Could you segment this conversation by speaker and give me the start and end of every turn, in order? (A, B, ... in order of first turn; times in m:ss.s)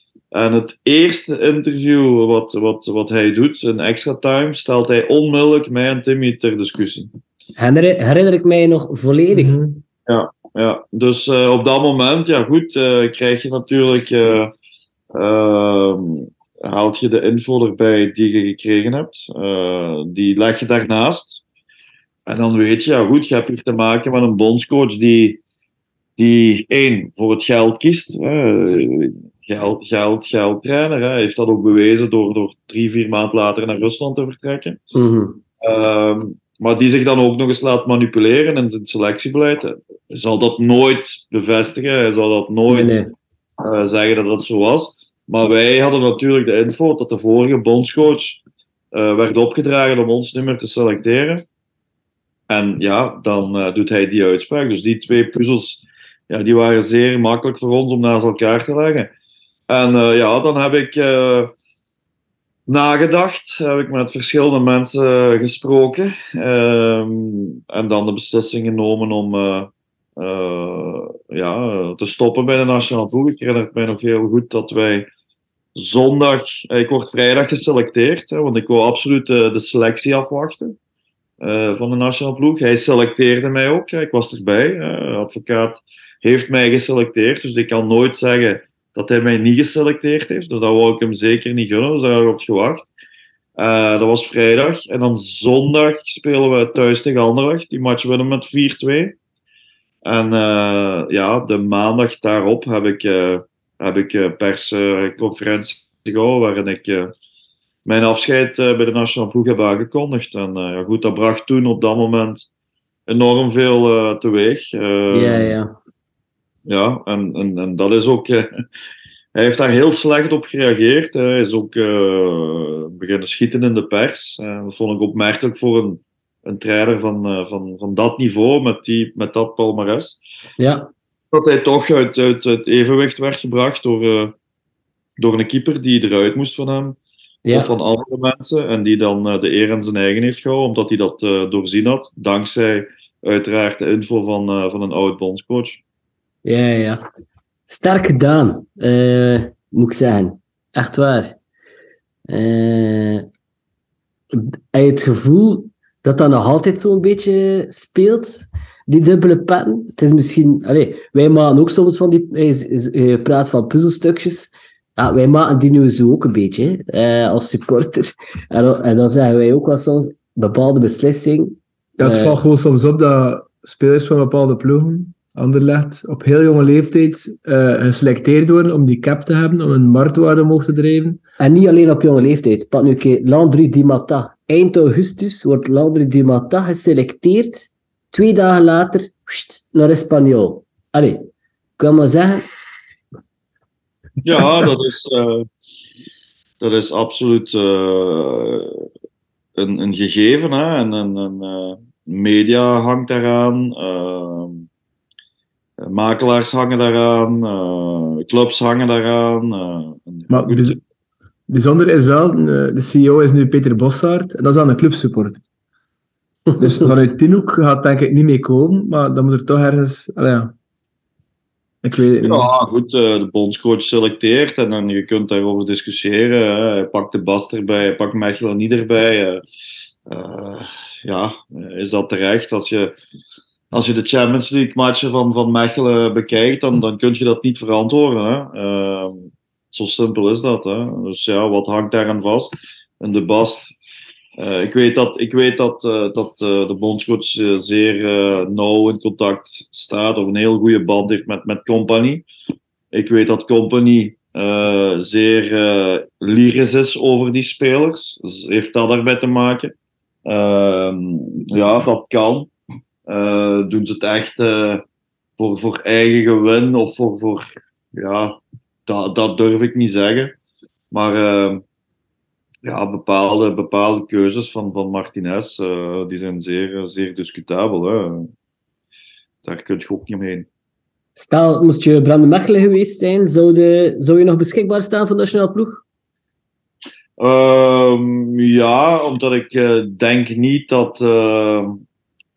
0:00.3-0:07.1 A
0:07.6-0:09.6 B
0:09.3-0:09.8 C
0:10.0-0:14.5 A
0:15.1-0:21.4 A
0:22.2-0:25.4 A
0:26.2-0:34.8 A
0:34.9-0:35.4 B
0:35.6-0:43.0 A
0:42.7-0:43.1 B
0:43.6-0:48.4 A
0:48.9-0:51.4 A
0:52.5-0:59.1 A
0:59.7-1:01.5 A
1:02.7-1:15.1 A
1:15.8-1:20.8 A
1:21.4-1:32.9 A
1:33.6-1:39.2 A
1:40.0-1:47.1 A
1:47.8-1:52.5 A
1:53.1-1:55.5 A
1:55.1-1:55.7 B
1:56.6-1:58.5 A
1:59.3-2:10.2 A
2:10.6-2:10.9 B
2:11.3-2:14.3 A
2:15.2-2:17.0 A
2:17.4-2:17.7 B
2:17.5-2:25.8 A
2:26.4-2:27.0 B
2:27.7-2:31.4 B
2:32.3-2:33.3 B
2:34.3-2:52.4 B
2:52.0-3:01.2 C
3:01.4-3:12.4 B
3:14.2-3:15.5 A
3:16.6-3:18.8 A
3:19.6-3:24.7 A
3:25.8-3:30.8 A
3:30.3-3:30.8 C
3:31.5-3:35.4 C
3:36.6-3:40.5 C
3:41.8-3:42.5 C
3:42.2-3:49.4 A
3:50.0-3:52.9 A
3:53.7-4:03.7 A
4:04.4-4:12.2 A
4:12.9-4:19.7 A
4:20.2-4:22.5 A
4:23.0-4:24.8 A
4:25.4-4:30.3 A
4:30.9-4:31.6 A
4:32.6-4:38.3 A
4:39.4-4:40.5 A
4:41.2-4:45.8 B
4:47.2-4:51.8 A